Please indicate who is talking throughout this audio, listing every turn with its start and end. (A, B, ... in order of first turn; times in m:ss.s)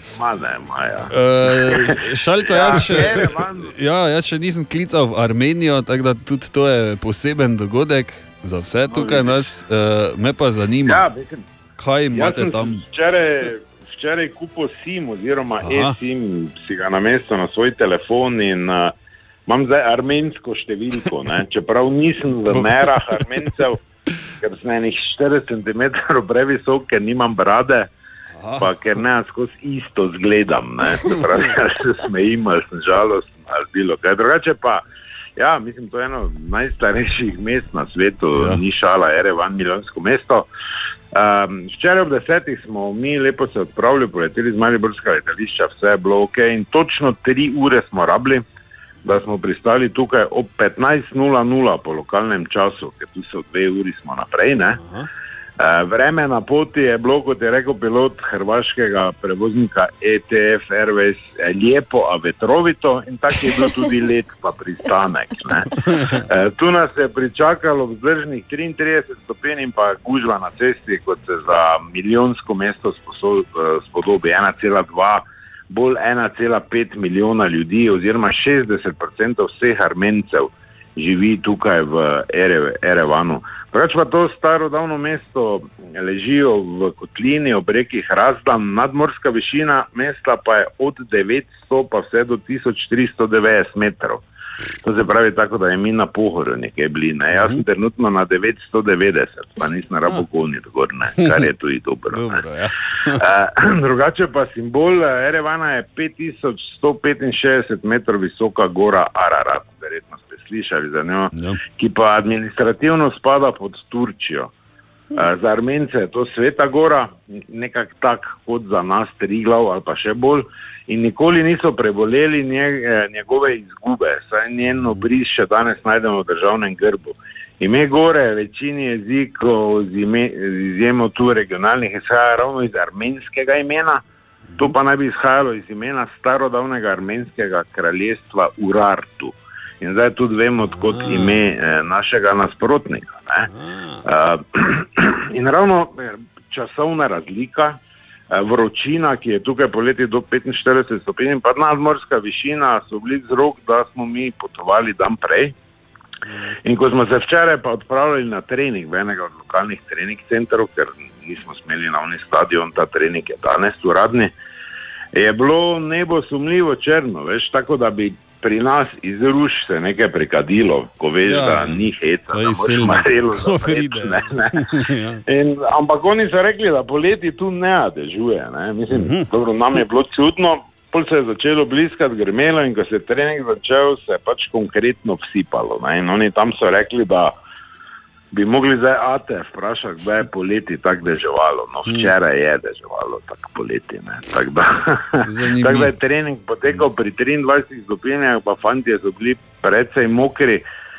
0:00.2-0:03.7 A
0:01.1-0:11.0 B
0:08.9-0:09.4 A
0:10.8-0:11.4 A
0:11.8-0:12.8 B
0:12.1-0:18.9 A
0:15.6-0:16.0 B
0:19.5-0:23.8 A
0:22.5-0:23.2 B
0:24.4-0:27.9 A
0:28.4-0:28.7 B
0:28.6-0:34.8 A
0:35.4-0:40.4 A
0:38.3-0:38.6 B
0:41.1-0:48.4 A
0:49.0-0:54.8 A
0:54.8-0:55.1 B
0:55.6-1:05.7 A
1:05.8-1:06.2 B
1:06.3-1:34.2 A
1:34.8-1:42.4 A
1:37.4-1:37.6 B
1:42.1-1:43.2 B
1:43.2-1:54.5 A
1:51.3-1:51.6 B
1:55.2-2:14.0 A
2:14.5-2:14.8 B
2:14.6-2:23.5 A
2:20.7-2:21.4 B
2:23.5-2:24.0 B
2:24.0-2:27.8 A
2:28.3-2:35.5 A
2:36.6-2:44.3 A
2:45.1-2:54.7 A
2:51.2-2:55.2 B
2:55.3-3:07.3 A
2:58.9-2:59.3 B
3:08.3-3:20.6 A
3:11.8-3:12.1 B
3:15.2-3:15.9 B